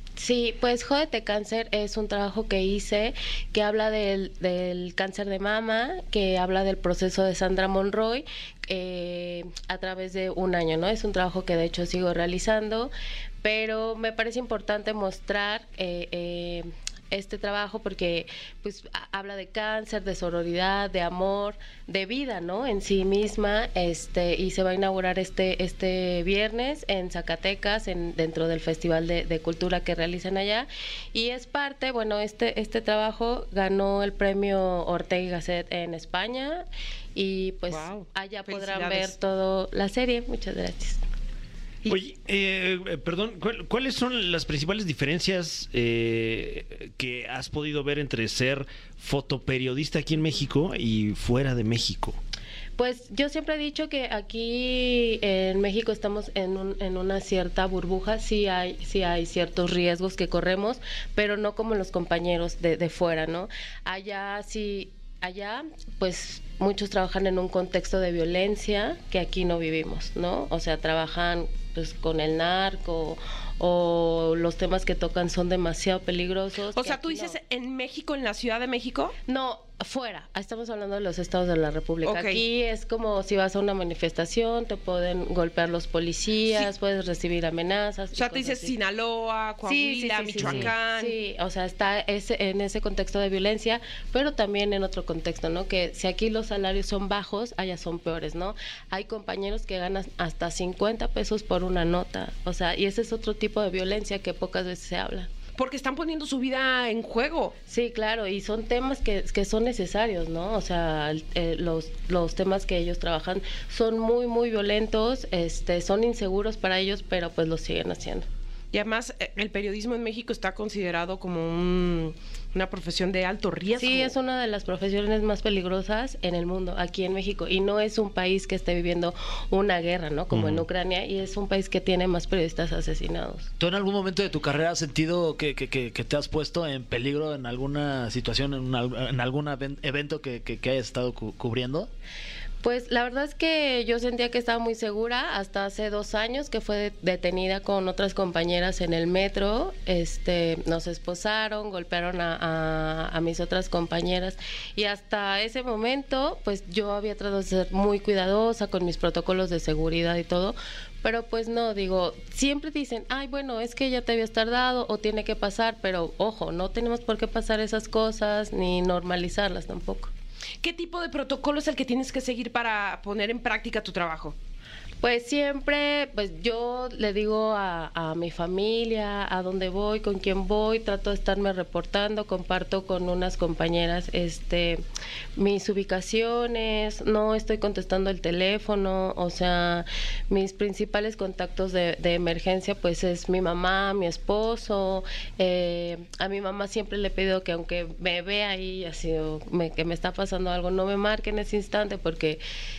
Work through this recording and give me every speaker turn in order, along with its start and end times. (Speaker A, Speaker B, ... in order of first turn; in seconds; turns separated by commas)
Speaker A: 0.2-41.0, Speaker B: 37.7-39.1, Speaker C: 41.9-52.2, Speaker A: 52.8-77.4, Speaker B: 76.8-79.2, Speaker A: 79.3-88.7, Speaker B: 82.0-82.4, Speaker B: 88.2-91.2, Speaker A: 89.7-105.3, Speaker B: 105.6-107.6, Speaker A: 107.7-118.3, Speaker B: 118.7-124.1, Speaker A: 123.8-133.5, Speaker D: 130.3-130.6, Speaker D: 133.6-141.9, Speaker A: 142.6-170.1, Speaker B: 170.6-174.4, Speaker A: 175.0-184.8, Speaker A: 185.4-202.4